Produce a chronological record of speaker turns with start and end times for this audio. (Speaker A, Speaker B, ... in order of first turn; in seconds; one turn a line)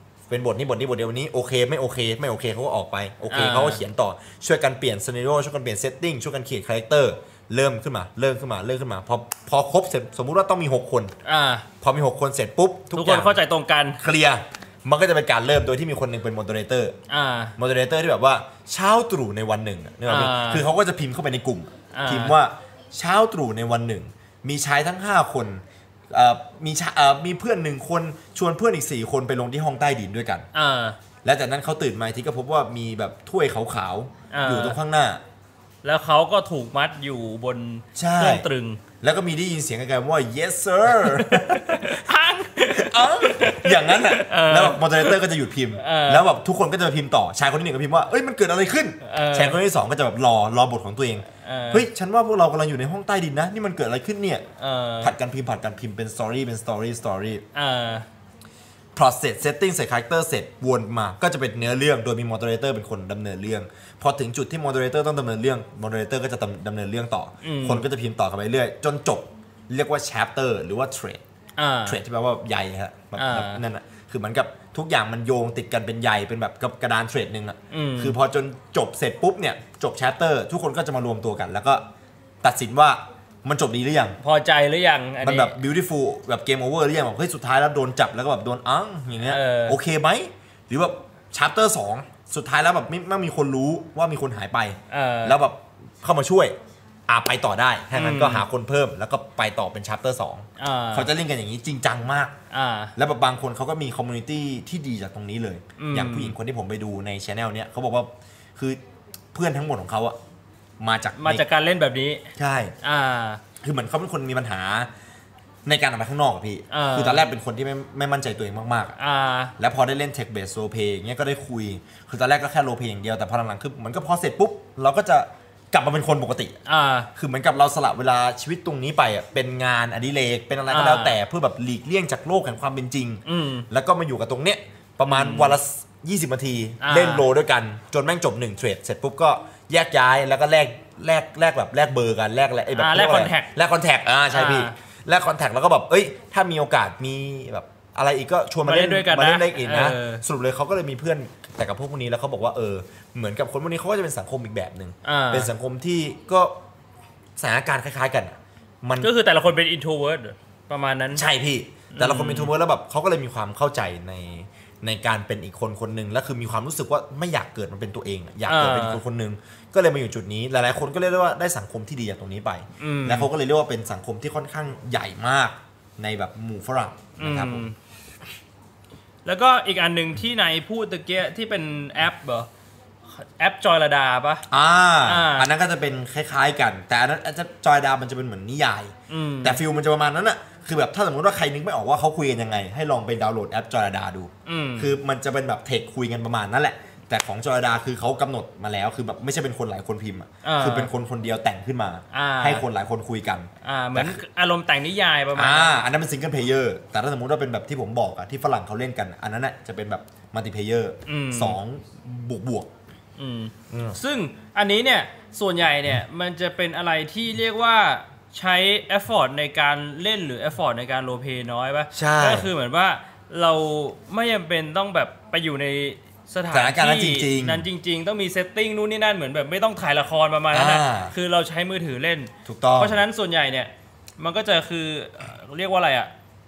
Speaker A: 0.3-11.1
Speaker B: 3.3-3.8
Speaker B: 11.2-11.7
Speaker A: 11.8-13.4
Speaker B: 12.9-14.0
Speaker A: 14.0-17.0
Speaker B: 17.1-17.5
Speaker A: 17.6-30.5
Speaker B: 20.1-20.6
Speaker B: 21.9-22.4
Speaker B: 30.5-31.0
Speaker A: 31.2-35.2
Speaker B: 34.3-34.8
Speaker B: 35.8-38.8
Speaker A: 38.0-38.5
Speaker A: 39.0-42.0
Speaker B: 41.0-45.2
Speaker A: 42.6-54.5
Speaker B: 45.8-46.3
Speaker B: 49.0-49.6
Speaker B: 51.4-51.9
Speaker B: 54.6-55.1
Speaker A: 55.0-57.4
Speaker B: 57.5-58.1
Speaker A: 59.0-71.2
Speaker B: 67.4-67.8
Speaker B: 71.6-72.0
Speaker A: 71.8-81.9
Speaker B: 73.2-73.6
Speaker B: 77.7-78.2
Speaker A: 82.4-84.2
Speaker B: 84.2-85.6
Speaker A: 85.2-96.6
Speaker B: 89.2-89.8
Speaker B: 94.9-95.4
Speaker A: 97.1-102.3
Speaker B: 97.9-98.5
Speaker B: 100.6-101.1
Speaker B: 102.5-102.9
Speaker A: 103.0-108.8
Speaker B: 105.8-106.4
Speaker A: 109.3-110.2
Speaker A: 110.8-111.5
Speaker B: 111.2-112.3
Speaker A: 112.4-112.8
Speaker B: 112.8-113.4
Speaker A: 113.6-114.9
Speaker A: 115.7-119.0
Speaker B: 116.7-117.2
Speaker B: 119.0-119.5
Speaker A: 119.6-126.6
Speaker B: 126.7-127.1
Speaker A: 127.2-156.6
Speaker B: 130.7-131.2
Speaker B: 133.3-133.7
Speaker B: 135.1-135.6
Speaker B: 136.8-137.3
Speaker B: 142.8-143.5
Speaker B: 144.3-144.7
Speaker B: 148.6-150.2
Speaker B: 155.0-155.5
Speaker A: 157.4-159.1
Speaker B: 159.0-161.2
Speaker A: 161.1-177.7
Speaker B: 161.9-162.5
Speaker B: 168.5-169.0
Speaker B: 172.8-173.3
Speaker B: 177.2-177.8
Speaker B: 179.2-182.5
Speaker B: 183.1-184.4
Speaker A: 184.5-204.2
Speaker B: 185.0-185.5
Speaker B: 189.1-189.6
Speaker B: 194.4-195.0
Speaker B: 200.4-200.9
Speaker B: 202.1-202.6
Speaker B: 203.6-205.8
Speaker A: 205.3-212.7
Speaker B: 211.1-211.6
Speaker B: 213.2-236.1
Speaker A: 213.7-214.0
Speaker A: 221.9-222.5
Speaker A: 226.5-227.7
Speaker A: 230.5-231.1
Speaker A: 232.4-233.0